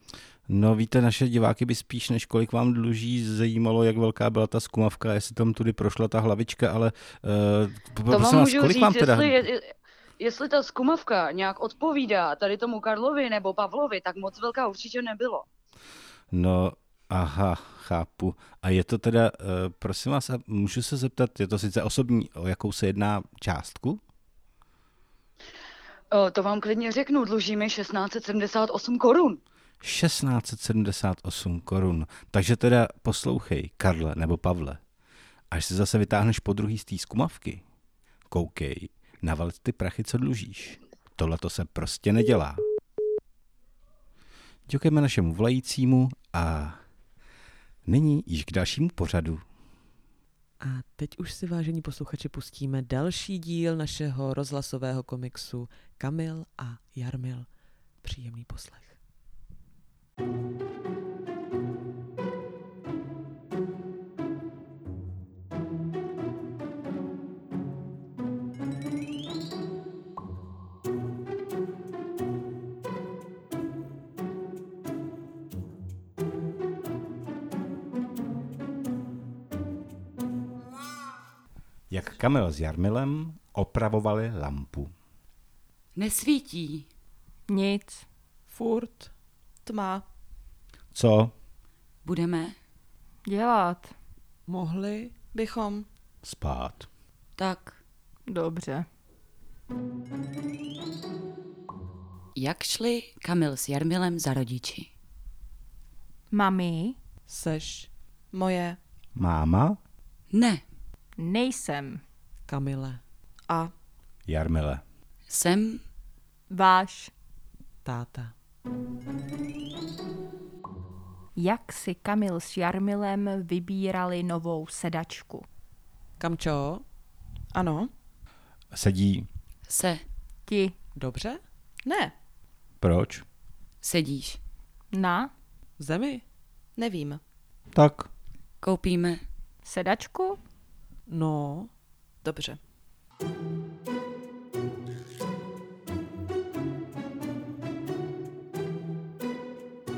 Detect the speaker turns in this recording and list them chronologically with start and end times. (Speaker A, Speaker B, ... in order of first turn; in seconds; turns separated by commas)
Speaker A: 0.5-9.5, Speaker B: 8.1-15.4, Speaker A: 16.3-24.0, Speaker B: 26.1-29.4, Speaker A: 29.8-34.8, Speaker A: 35.5-37.6, Speaker A: 38.3-42.6, Speaker A: 44.7-46.8, Speaker A: 47.9-49.4, Speaker C: 50.6-57.5, Speaker C: 58.0-59.0, Speaker A: 81.9-84.9, Speaker D: 86.0-86.9, Speaker E: 87.5-88.0, Speaker C: 88.5-89.1, Speaker F: 89.7-90.0, Speaker A: 90.9-91.3, Speaker D: 92.0-92.5, Speaker E: 93.2-93.9, Speaker C: 94.5-95.1, Speaker F: 95.3-95.8, Speaker A: 96.2-96.9, Speaker D: 97.4-97.8, Speaker E: 98.3-98.9, Speaker D: 102.3-104.9, Speaker E: 106.3-107.0, Speaker C: 107.3-107.9, Speaker F: 108.3-108.8, Speaker A: 109.2-109.8, Speaker D: 110.3-110.6, Speaker E: 111.2-112.0, Speaker C: 112.5-113.0, Speaker A: 114.3-114.8, Speaker D: 115.3-115.8, Speaker E: 116.5-117.1, Speaker C: 117.8-118.3, Speaker E: 121.3-125.4, Speaker C: 126.2-126.8, Speaker F: 127.5-127.9, Speaker A: 128.7-129.3, Speaker D: 129.7-130.0, Speaker E: 130.5-130.7, Speaker C: 130.9-131.4, Speaker F: 131.8-132.1, Speaker A: 132.8-133.2, Speaker D: 133.8-134.4, Speaker E: 134.9-135.3, Speaker C: 135.8-136.2, Speaker F: 136.8-137.2, Speaker A: 137.7-138.1, Speaker D: 138.6-139.2, Speaker E: 139.6-140.4, Speaker C: 141.1-141.7, Speaker F: 142.2-142.6